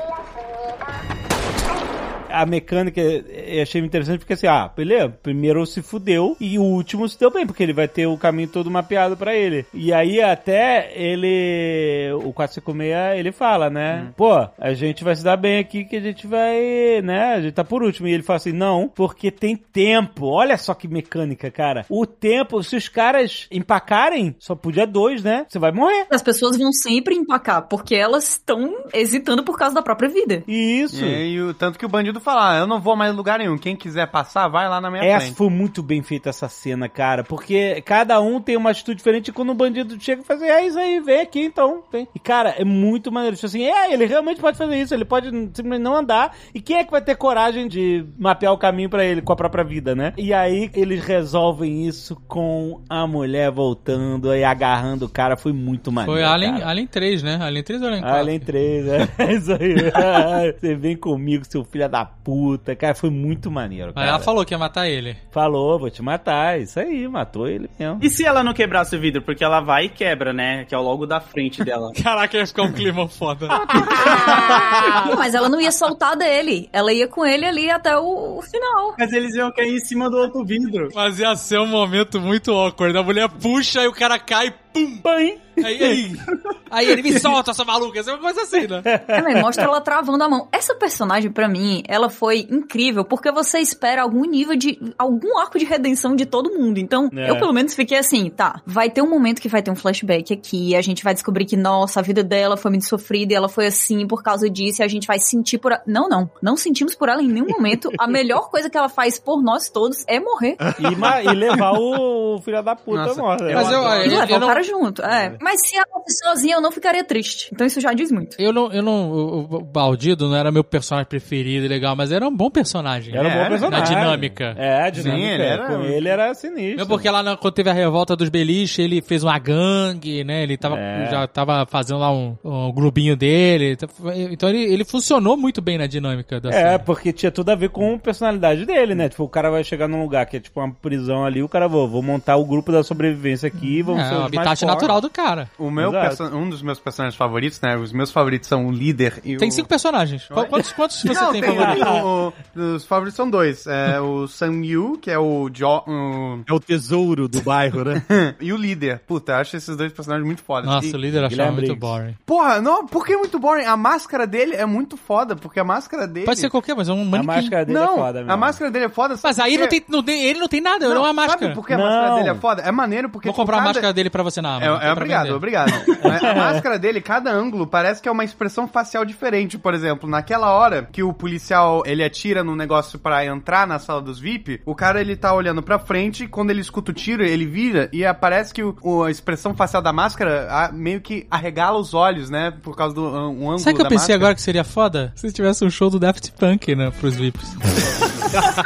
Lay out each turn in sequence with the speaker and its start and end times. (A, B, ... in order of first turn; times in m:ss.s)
0:02.3-0:26.1 A
0:26.1-0:30.5 B
0:30.5-0:31.2 A
0:30.9-0:35.4 C
0:35.0-0:56.7 A
0:56.0-0:58.5 D
0:58.0-1:04.3 A
1:04.0-1:05.2 D
1:05.3-1:08.0 A
1:08.0-1:12.0 E
1:12.0-1:14.2 D
1:13.6-1:15.1 A
1:14.4-1:19.0 B
1:19.0-1:20.9 E
1:20.9-1:25.1 D
1:25.0-1:26.0 A
1:25.6-1:28.9 D
1:28.8-1:29.6 A
1:29.1-1:50.7 B
1:37.1-1:37.5 A
1:50.6-1:51.7 F
1:50.8-1:54.1 A
1:52.9-1:54.2 C
1:53.5-1:54.6 D
1:54.0-1:58.4 B
1:58.4-2:05.2 D
2:03.1-2:07.1 A
2:03.1-2:04.1 C
2:04.9-2:06.2 C
2:06.8-2:16.8 D
2:10.6-2:11.2 A
2:16.5-2:25.0 A
2:23.6-2:25.5 D
2:25.6-2:29.7 C
2:25.8-2:26.2 A
2:29.4-2:32.0 D
2:30.3-2:36.5 C
2:31.1-2:32.1 A
2:36.5-2:38.0 F
2:38.0-2:41.0 C
2:40.6-2:42.2 D
2:41.1-2:42.0 A
2:42.3-2:46.5 C
2:46.2-2:47.6 D
2:47.1-2:48.6 A
2:47.7-2:49.8 C
2:49.2-2:51.6 D
2:50.8-2:53.9 C
2:51.7-2:52.4 A
2:53.2-2:55.4 D
2:54.6-3:14.3 C
2:56.0-2:56.6 A
3:13.6-3:17.8 D